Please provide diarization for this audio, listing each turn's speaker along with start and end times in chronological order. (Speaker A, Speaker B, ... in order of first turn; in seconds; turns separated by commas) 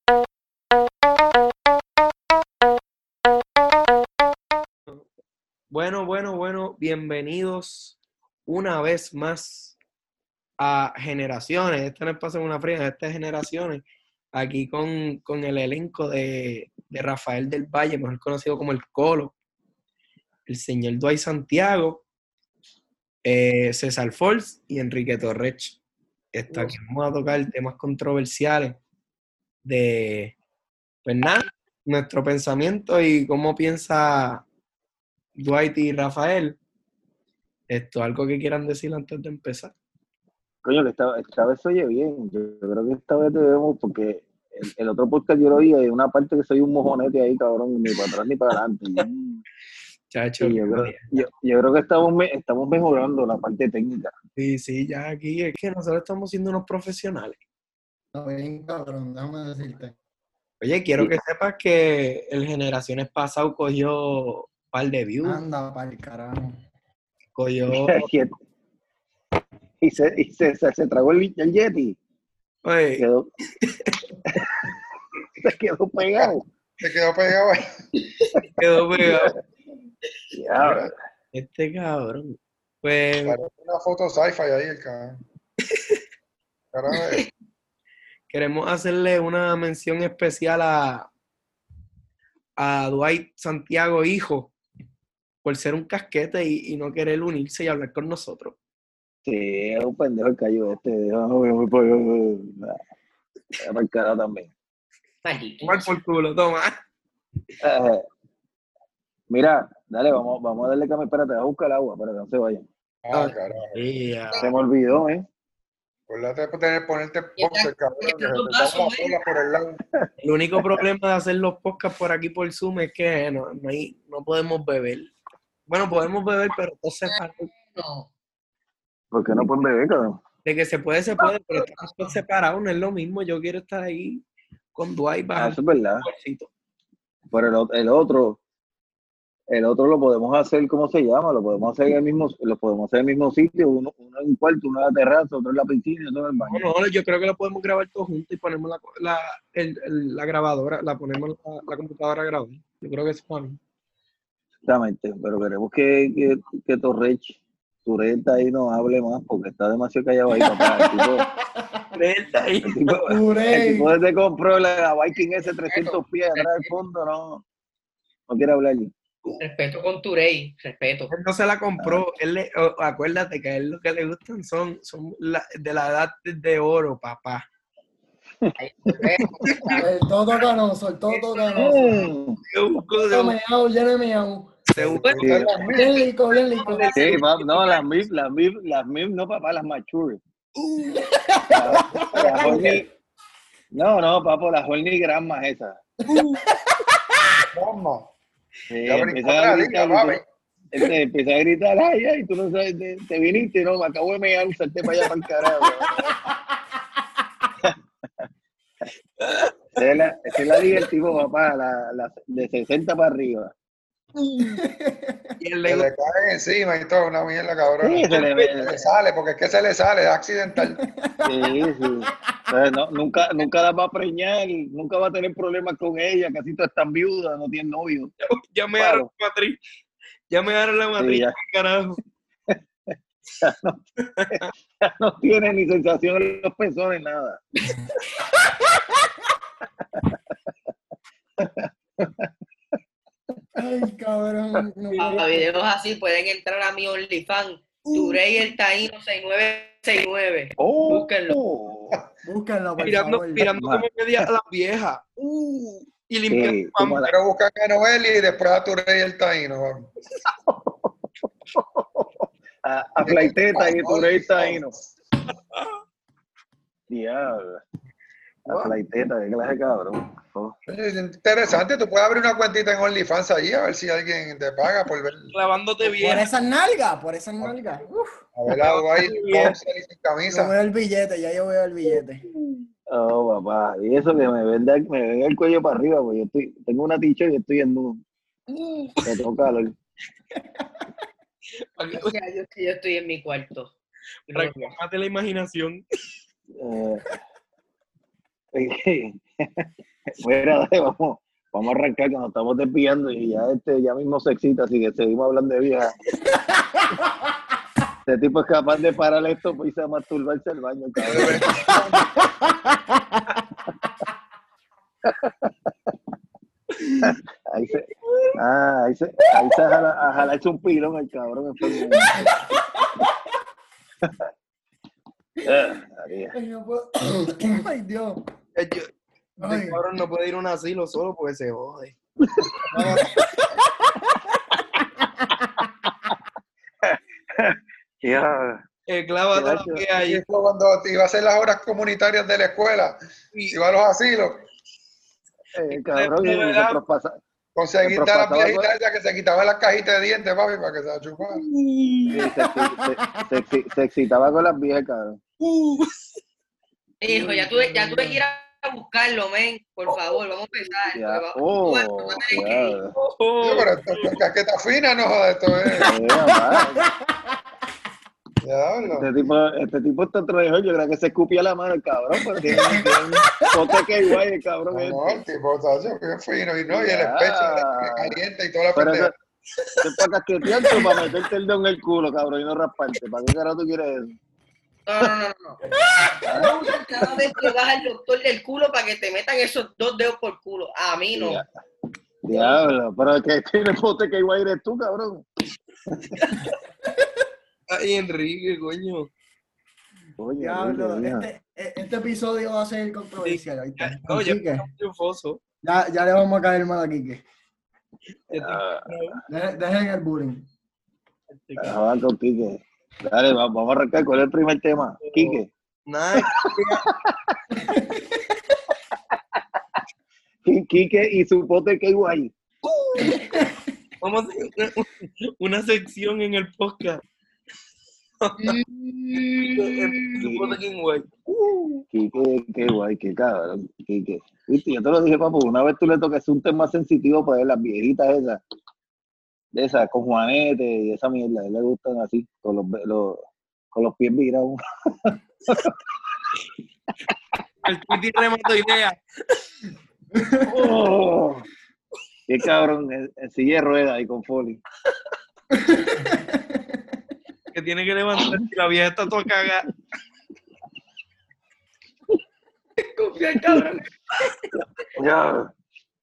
Speaker A: 5.7-9.8, Speaker A: 10.6-13.8, Speaker A: 14.3-19.4, Speaker A: 20.5-22.1, Speaker A: 23.2-25.8, Speaker A: 26.3-28.8, Speaker A: 29.6-30.4, Speaker A: 31.1-34.5, Speaker A: 35.4-36.6, Speaker A: 37.7-39.7, Speaker B: 40.6-49.4, Speaker A: 50.1-51.2, Speaker B: 50.4-54.1, Speaker A: 54.4-57.4, Speaker C: 58.1-60.0, Speaker A: 60.6-65.4, Speaker C: 65.2-66.6, Speaker A: 67.3-68.1, Speaker B: 67.7-68.3, Speaker B: 69.8-72.0, Speaker A: 72.7-73.0, Speaker B: 73.0-73.3, Speaker A: 73.6-74.0, Speaker B: 74.3-74.7, Speaker B: 75.4-76.5, Speaker D: 76.8-77.6, Speaker A: 78.6-79.3, Speaker B: 79.0-79.3, Speaker B: 80.3-80.9, Speaker D: 80.6-80.9, Speaker A: 81.3-83.4, Speaker D: 83.2-85.2, Speaker D: 86.7-87.3, Speaker A: 88.3-91.1, Speaker A: 92.6-94.5, Speaker A: 95.4-98.6, Speaker B: 99.2-102.8, Speaker B: 103.6-104.5, Speaker E: 105.2-105.9, Speaker A: 105.6-106.8, Speaker B: 107.6-108.0, Speaker B: 109.3-112.7, Speaker D: 113.0-114.5, Speaker A: 113.1-114.5, Speaker B: 114.4-115.2, Speaker D: 116.1-119.8, Speaker E: 117.4-119.2, Speaker B: 120.0-120.8, Speaker A: 120.2-125.1, Speaker A: 125.7-127.5, Speaker E: 127.1-128.1, Speaker B: 129.1-130.2, Speaker A: 130.4-134.2, Speaker A: 134.8-136.5, Speaker B: 135.4-136.1, Speaker B: 137.3-138.4, Speaker B: 139.5-146.7, Speaker A: 146.4-153.6, Speaker B: 154.7-161.2, Speaker C: 160.3-162.0, Speaker A: 161.9-162.9, Speaker B: 162.6-167.4, Speaker C: 163.1-163.9, Speaker E: 165.7-166.7, Speaker B: 168.3-168.9, Speaker E: 169.4-171.1, Speaker A: 171.1-177.4, Speaker B: 178.4-179.7, Speaker E: 178.6-179.8, Speaker A: 179.4-179.9, Speaker C: 179.8-182.1, Speaker B: 181.6-182.4, Speaker A: 182.5-183.4, Speaker C: 182.9-184.5, Speaker A: 184.7-185.9, Speaker D: 184.8-186.0, Speaker B: 185.2-185.6, Speaker C: 185.7-187.2, Speaker A: 186.6-187.8, Speaker B: 186.9-190.2, Speaker A: 190.6-191.0, Speaker C: 190.9-192.5, Speaker B: 191.6-192.9, Speaker D: 192.0-192.8, Speaker A: 192.3-192.8, Speaker B: 193.7-195.8, Speaker A: 196.1-196.4, Speaker D: 197.5-198.1, Speaker B: 198.7-200.2, Speaker D: 198.8-200.2, Speaker B: 200.7-206.2, Speaker C: 205.8-206.4, Speaker A: 209.2-209.5, Speaker B: 209.8-213.5, Speaker C: 214.4-215.3, Speaker A: 215.4-215.9, Speaker D: 215.7-220.8, Speaker B: 217.8-218.8, Speaker A: 218.1-218.5, Speaker C: 220.6-222.1, Speaker B: 221.2-228.1, Speaker A: 228.2-229.6, Speaker B: 228.8-229.1, Speaker A: 230.3-232.0, Speaker B: 231.0-231.3, Speaker B: 233.4-237.4, Speaker A: 234.2-234.5, Speaker B: 241.4-242.3, Speaker C: 243.6-245.5, Speaker E: 245.0-251.4, Speaker A: 247.8-248.2, Speaker B: 250.6-252.0, Speaker C: 252.2-253.5, Speaker A: 252.8-257.1, Speaker B: 253.4-254.3, Speaker B: 256.3-257.1, Speaker D: 257.0-259.9, Speaker B: 260.4-260.9, Speaker B: 261.5-264.7, Speaker D: 263.0-264.9, Speaker B: 266.9-267.6, Speaker A: 268.5-268.7, Speaker B: 268.5-270.6, Speaker D: 270.7-275.3, Speaker A: 275.3-276.3, Speaker C: 275.9-278.1, Speaker D: 278.3-280.5, Speaker A: 278.5-279.6, Speaker C: 280.3-282.2, Speaker B: 282.9-288.0, Speaker A: 288.6-289.1, Speaker B: 289.0-289.8, Speaker A: 291.8-292.1, Speaker E: 291.9-293.7, Speaker E: 294.3-294.8, Speaker A: 294.3-295.8, Speaker B: 296.6-297.2, Speaker B: 298.5-305.9, Speaker C: 306.3-307.2, Speaker B: 308.1-311.6, Speaker D: 311.0-312.2, Speaker C: 311.2-313.4, Speaker B: 315.0-315.9, Speaker B: 317.0-322.3, Speaker A: 318.0-318.3, Speaker C: 322.0-323.1, Speaker B: 325.4-326.4, Speaker C: 326.3-328.2, Speaker A: 328.6-328.9, Speaker C: 329.4-329.8, Speaker A: 329.4-331.9, Speaker A: 332.7-333.0, Speaker C: 332.7-334.1, Speaker C: 335.2-335.7, Speaker B: 336.8-338.6, Speaker A: 338.9-340.2, Speaker B: 339.3-339.9, Speaker D: 340.0-344.5, Speaker B: 345.6-347.2, Speaker A: 345.7-346.8, Speaker D: 347.6-351.4, Speaker B: 347.8-348.7, Speaker A: 351.3-352.2, Speaker B: 352.1-355.2, Speaker C: 352.5-352.9, Speaker A: 355.4-356.2, Speaker E: 357.0-362.8, Speaker B: 357.1-358.1, Speaker B: 360.9-362.9, Speaker A: 362.9-364.2, Speaker D: 363.4-365.9, Speaker B: 365.8-366.9, Speaker C: 366.1-366.9, Speaker D: 368.4-369.1, Speaker B: 368.9-375.2, Speaker C: 372.6-373.4, Speaker D: 374.7-379.1, Speaker B: 376.7-378.2, Speaker B: 378.8-379.1, Speaker A: 379.6-379.9, Speaker B: 379.8-384.1, Speaker A: 380.6-381.0, Speaker E: 384.9-391.4, Speaker B: 386.3-387.4, Speaker B: 391.1-391.5, Speaker B: 392.2-395.3, Speaker E: 392.3-392.6, Speaker B: 395.9-396.2, Speaker A: 396.2-396.5, Speaker A: 397.7-399.1, Speaker B: 400.2-401.3, Speaker C: 400.4-404.7, Speaker A: 403.2-405.4, Speaker C: 405.6-407.2, Speaker A: 408.3-409.2, Speaker B: 408.3-408.9, Speaker C: 409.3-410.5, Speaker A: 411.3-411.8, Speaker B: 411.6-415.5, Speaker A: 415.0-416.9, Speaker B: 416.2-417.4, Speaker C: 417.6-418.2, Speaker B: 420.5-422.3, Speaker A: 422.6-423.3, Speaker C: 423.0-423.6, Speaker A: 424.0-427.0, Speaker A: 428.2-428.6, Speaker A: 429.1-431.8, Speaker B: 429.2-429.6, Speaker B: 430.2-430.6, Speaker B: 431.9-438.4, Speaker B: 439.6-445.8, Speaker A: 447.6-449.4, Speaker C: 450.1-450.5, Speaker B: 450.4-451.5, Speaker B: 452.3-454.6, Speaker C: 455.6-456.6, Speaker A: 457.5-459.7, Speaker A: 462.9-464.4, Speaker B: 465.0-465.5